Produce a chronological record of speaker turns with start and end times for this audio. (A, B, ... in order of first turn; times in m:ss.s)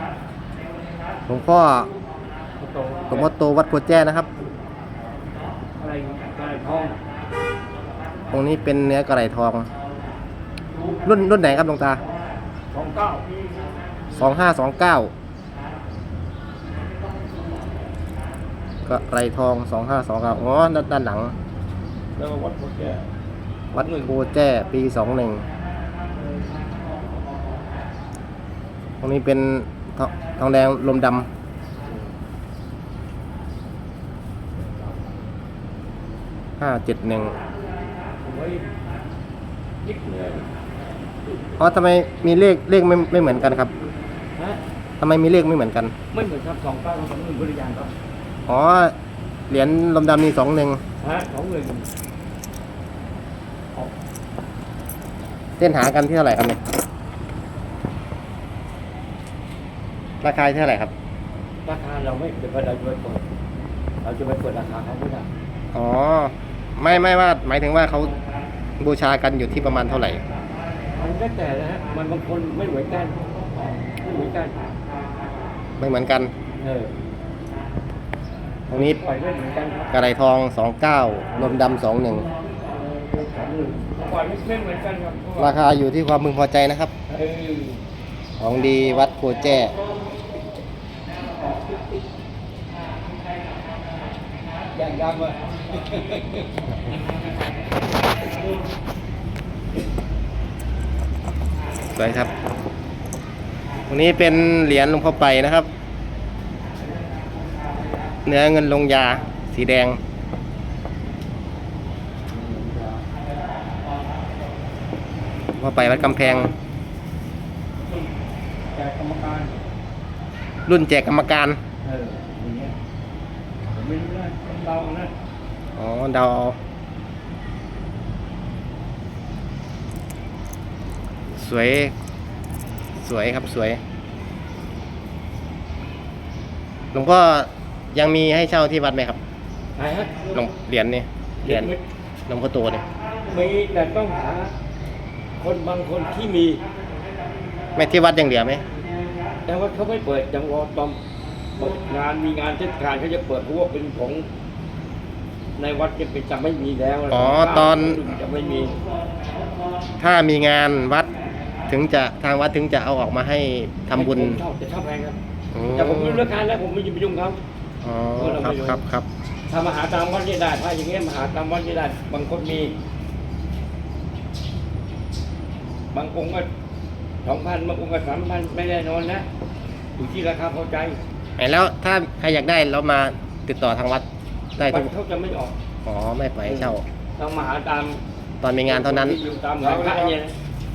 0:01.3-0:01.9 A
0:02.6-0:03.3 B
0:03.1-0:04.3 A
0:05.8-0:07.0 B
0:08.3-0:09.7 A
0:11.0-0:12.0 A
0:12.7-0:13.6 B
0:14.2-0:15.1 A
0:18.8-0:21.3 A
0:22.2-0:23.0 B
0:23.7-0:24.1 B
0:23.7-0:25.4 A
0:29.0-0:31.3 A
0:36.6-0:37.4 A
0:38.2-0:38.6 B
0:39.8-0:40.5 B
0:41.6-0:43.7 A
0:45.0-0:45.9 A
0:46.1-0:47.9 B
0:48.5-0:48.9 A
0:49.5-0:50.8 A
0:51.0-0:51.9 B
0:55.6-0:56.6 A
1:00.2-1:00.9 A
1:01.6-1:03.2 B
1:04.0-1:05.3 B
1:05.7-1:08.1 A
1:08.8-1:10.2 A
1:10.9-1:13.2 B
1:13.8-1:14.6 B
1:15.8-1:16.3 A
1:16.6-1:16.9 B
1:18.7-1:20.0 B
1:18.7-1:19.0 A
1:19.9-1:22.3 A
1:23.1-1:25.6 B
1:25.4-1:26.9 A
1:27.1-1:27.8 B
1:28.4-1:29.7 A
1:34.7-1:36.5 B
1:41.9-1:42.3 A
1:43.9-1:45.7 A
1:48.2-1:50.0 A
1:52.3-1:53.0 B
1:55.6-1:56.5 A
1:55.7-1:56.6 B
1:58.7-1:59.5 B
2:00.7-2:01.6 A
2:01.8-2:02.7 B
2:03.7-2:05.1 B
2:05.8-2:06.6 A
2:11.3-2:11.9 A
2:13.0-2:13.8 A
2:16.9-2:19.2 A
2:19.8-2:20.2 B
2:20.3-2:21.7 A
2:21.4-2:21.8 B
2:22.3-2:22.8 A
2:23.3-2:24.5 B
2:25.4-2:26.6 B
2:27.8-2:28.6 A
2:29.4-2:31.0 B
2:31.6-2:34.2 B
2:35.6-2:38.8 B
2:37.1-2:38.0 A
2:40.0-2:41.1 A
2:41.7-2:44.4 A
2:43.9-2:45.2 B
2:45.5-2:46.2 A
2:45.7-2:47.4 B
2:47.8-2:49.1 A
2:48.2-2:48.8 B
2:49.5-2:52.7 B
2:55.9-2:56.5 B
2:57.2-2:59.2 B
3:00.0-3:01.0 B
3:01.4-3:04.0 A
3:04.6-3:04.9 A
3:04.6-3:05.5 B
3:05.8-3:06.8 A
3:06.4-3:08.0 B
3:08.4-3:09.2 A
3:08.6-3:10.3 B